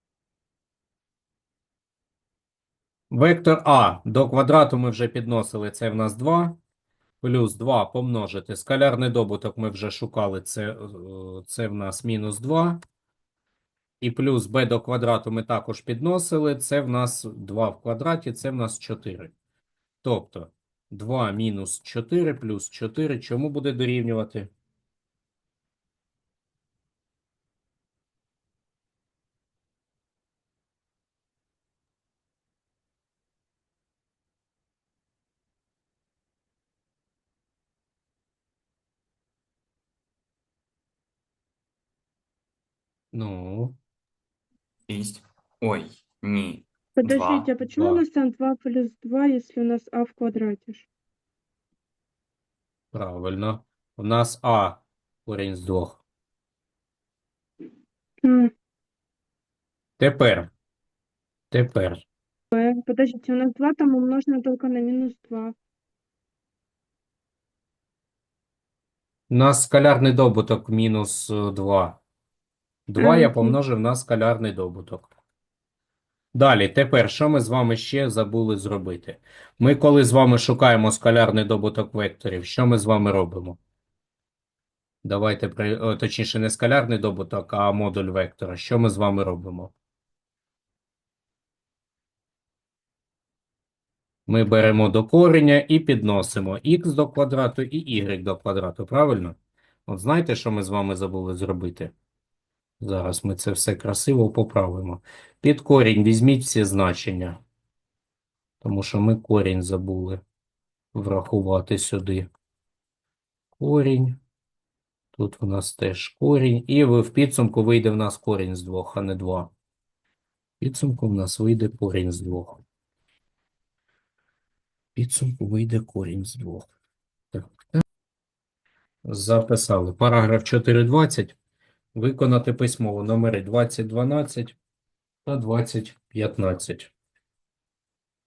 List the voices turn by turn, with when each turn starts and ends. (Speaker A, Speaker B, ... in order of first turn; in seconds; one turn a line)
Speaker A: 3.1-6.6
Speaker A: 7.2-12.8
Speaker A: 14.0-19.3
Speaker A: 20.0-24.5
Speaker A: 43.1-43.8
Speaker B: 44.9-47.5
Speaker C: 47.0-50.9
Speaker A: 47.6-48.0
Speaker A: 52.9-56.0
Speaker C: 58.2-58.5
Speaker A: 60.0-60.5
Speaker A: 61.5-62.0
Speaker C: 62.5-65.5
Speaker A: 69.3-72.0
Speaker A: 72.9-75.1
Speaker C: 73.0-73.5
Speaker A: 76.3-83.6
Speaker A: 85.0-89.7
Speaker A: 94.3-101.9
Speaker A: 102.8-107.4
Speaker A: 108.6-110.2
Speaker A: 110.9-112.3
Speaker A: 113.5-114.2
Speaker A: 115.1-119.5
Speaker A: 120.6-122.6
Speaker A: 124.9-126.7
Speaker A: 127.3-127.8
Speaker A: 129.0-131.3
Speaker A: 131.9-134.6
Speaker A: 135.2-136.9